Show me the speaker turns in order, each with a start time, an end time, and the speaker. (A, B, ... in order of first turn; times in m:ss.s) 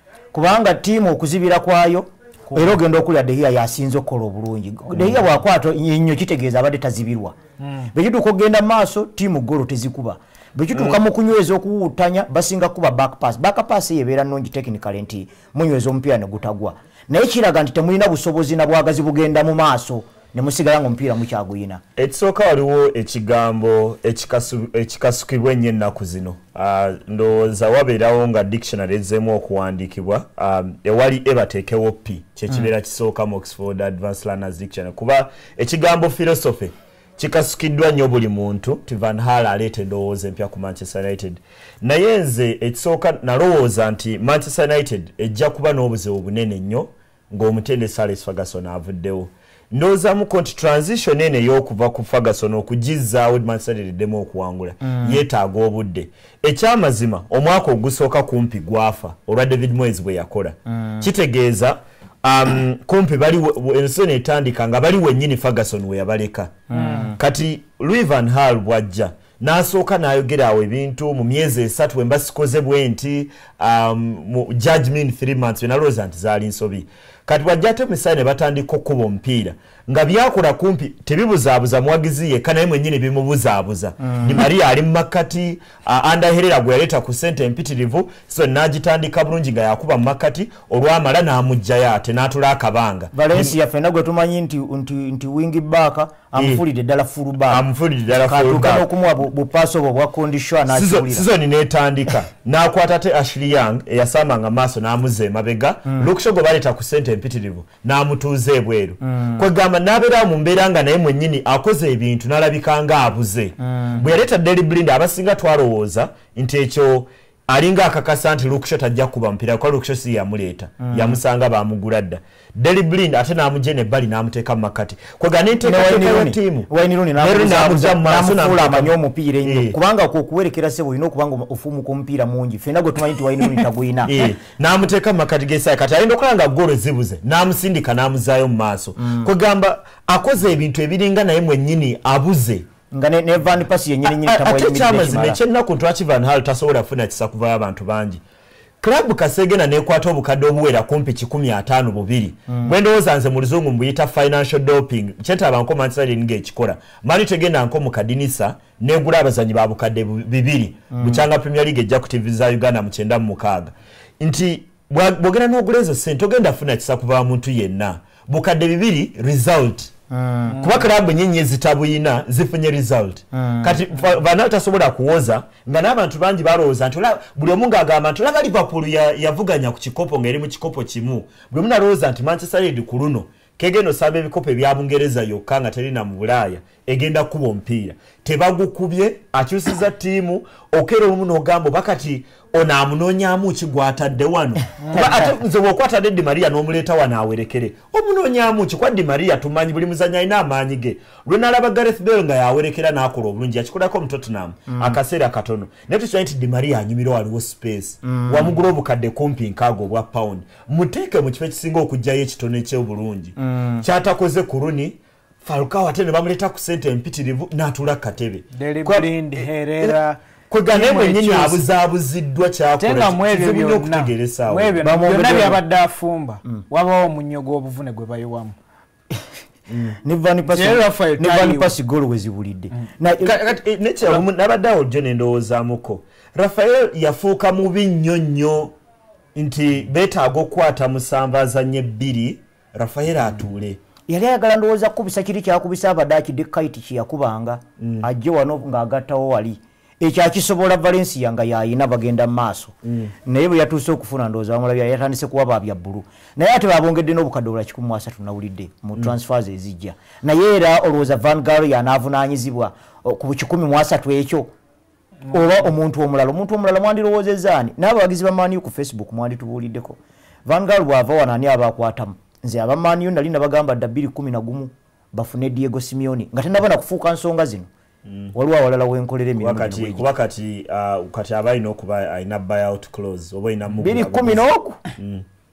0:00.3-0:07.4 A
0:02.5-0:02.8 B
0:07.6-0:07.9 B
0:07.9-0:21.8 A
0:22.0-1:33.5 C
0:54.8-0:55.2 A
1:06.7-1:07.1 B
1:06.7-1:07.1 A
1:24.1-1:24.4 A
1:33.1-1:41.3 A
1:36.3-1:36.6 C
1:37.5-1:38.9 C
1:40.7-2:09.7 C
1:49.0-1:49.4 A
1:53.6-1:54.0 A
2:00.8-2:01.2 A
2:05.6-2:14.3 A
2:14.0-2:22.6 C
2:19.0-2:19.3 A
2:22.9-2:25.4 A
2:24.1-2:28.2 C
2:28.8-2:49.9 C
2:32.5-2:32.7 A
2:40.9-2:41.2 A
2:50.1-2:50.7 A
2:50.6-3:39.9 C
2:53.3-2:53.9 A
3:14.9-3:15.3 A
3:24.7-3:25.0 A
3:28.0-3:28.6 A
3:33.4-3:33.8 A
3:38.5-3:41.6 B
3:40.5-3:44.8 C
3:42.8-3:48.5 B
3:44.8-3:45.6 A
3:49.7-3:50.0 C
3:50.0-3:53.4 A
3:50.5-3:51.7 B
3:53.2-3:58.7 C
3:59.3-4:03.8 C
4:04.1-4:24.5 A
4:07.8-4:08.0 C
4:12.8-4:13.1 C
4:25.3-4:37.7 A
4:38.0-4:38.3 C
4:38.3-4:40.1 A
4:39.4-4:45.2 C
4:43.7-4:44.8 A